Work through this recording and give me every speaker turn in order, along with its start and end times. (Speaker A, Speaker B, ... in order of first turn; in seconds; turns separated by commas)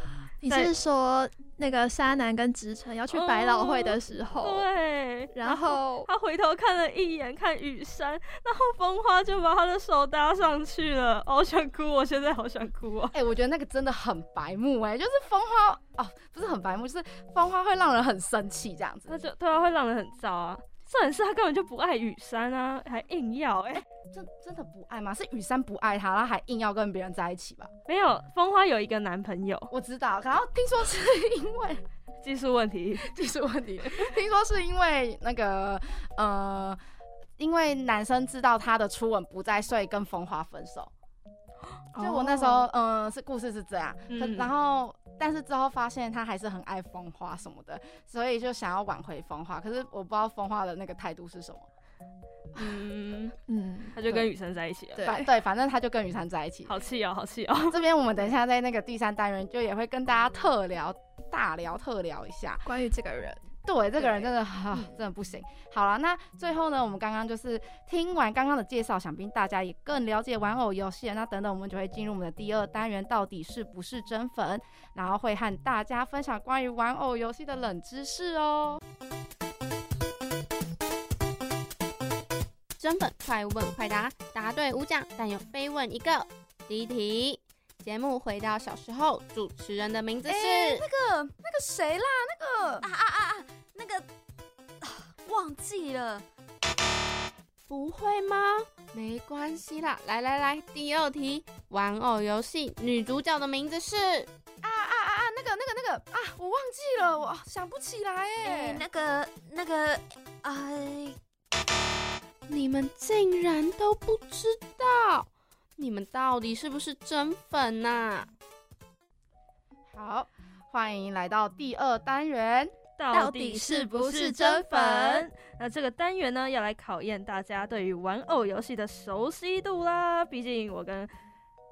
Speaker A: 0.4-4.7, Speaker B: 3.1-13.1, Speaker A: 5.3-6.1, Speaker C: 13.1-19.2, Speaker B: 19.1-23.8, Speaker C: 24.0-27.7, Speaker B: 27.9-29.7, Speaker C: 29.7-31.8, Speaker B: 32.2-33.1, Speaker C: 33.0-36.8, Speaker C: 37.4-40.9, Speaker A: 42.0-42.6, Speaker C: 42.0-51.7, Speaker B: 44.1-44.5, Speaker B: 52.5-53.3, Speaker A: 53.5-54.2, Speaker B: 53.9-55.0, Speaker A: 55.0-55.3, Speaker C: 55.0-56.7, Speaker B: 56.7-57.8, Speaker C: 57.7-62.6, Speaker A: 62.6-63.4, Speaker C: 63.6-78.8, Speaker D: 82.8-90.8, Speaker C: 90.3-92.9, Speaker E: 92.8-94.0, Speaker E: 94.8-96.2, Speaker D: 97.7-104.3, Speaker C: 104.6-108.8, Speaker E: 108.4-111.2, Speaker D: 112.5-118.3, Speaker C: 119.9-122.7, Speaker B: 123.0-131.1, Speaker A: 123.1-125.3